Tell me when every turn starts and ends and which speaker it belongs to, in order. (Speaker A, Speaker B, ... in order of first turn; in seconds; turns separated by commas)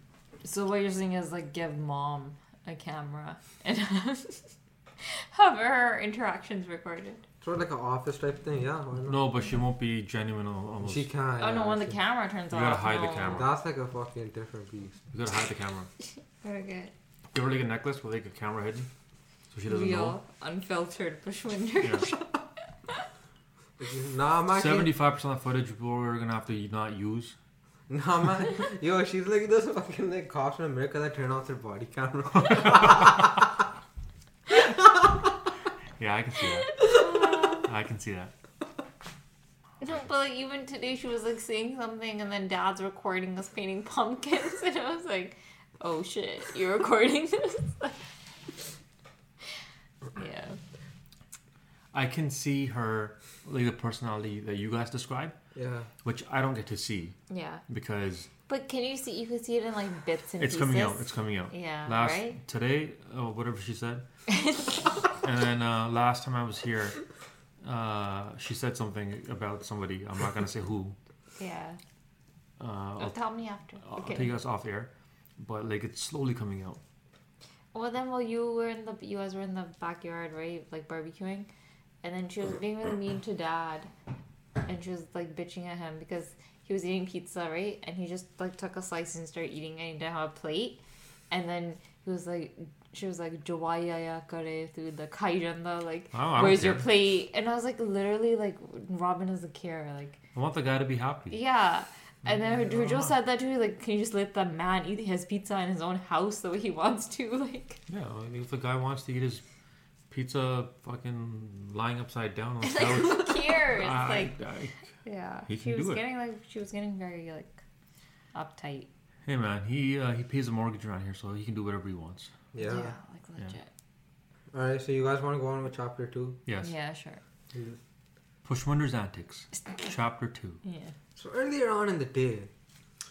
Speaker A: 0.4-7.2, Speaker B: 7.4-9.2, Speaker C: 9.1-11.1, Speaker B: 10.8-12.0, Speaker A: 11.4-13.4, Speaker C: 12.5-13.5, Speaker B: 13.3-15.0, Speaker C: 15.1-15.9, Speaker A: 16.4-16.9, Speaker C: 17.3-18.9, Speaker C: 19.5-20.2, Speaker A: 19.7-22.2, Speaker C: 21.8-22.1, Speaker B: 23.8-24.9, Speaker C: 24.5-27.3, Speaker B: 27.9-33.6, Speaker B: 34.5-35.1, Speaker C: 36.0-36.9, Speaker A: 36.6-37.7, Speaker C: 37.6-38.3, Speaker A: 39.8-48.1, Speaker A: 50.1-50.6, Speaker C: 51.9-55.3, Speaker B: 55.5-55.9, Speaker C: 56.0-58.3, Speaker A: 57.3-57.6, Speaker A: 58.5-62.4, Speaker C: 60.4-64.0, Speaker A: 64.3-64.7, Speaker C: 65.1-67.0, Speaker C: 67.6-71.0, Speaker A: 71.4-71.8, Speaker C: 72.6-73.2, Speaker A: 73.0-74.3, Speaker C: 73.8-76.8, Speaker A: 77.7-81.5, Speaker A: 82.0-83.9, Speaker A: 84.7-100.2, Speaker C: 96.1-96.8, Speaker C: 100.3-101.4, Speaker A: 101.3-107.8, Speaker C: 102.2-103.1, Speaker C: 107.9-109.4, Speaker C: 110.1-114.7, Speaker A: 112.6-114.3, Speaker A: 115.0-117.6, Speaker C: 115.5-116.0, Speaker A: 118.3-118.9, Speaker C: 119.2-122.3, Speaker B: 122.5-122.9, Speaker A: 122.6-123.7, Speaker B: 124.5-126.4, Speaker A: 126.6-127.2, Speaker B: 127.5-127.8, Speaker C: 128.4-130.6, Speaker A: 130.6-130.9, Speaker B: 131.2-132.5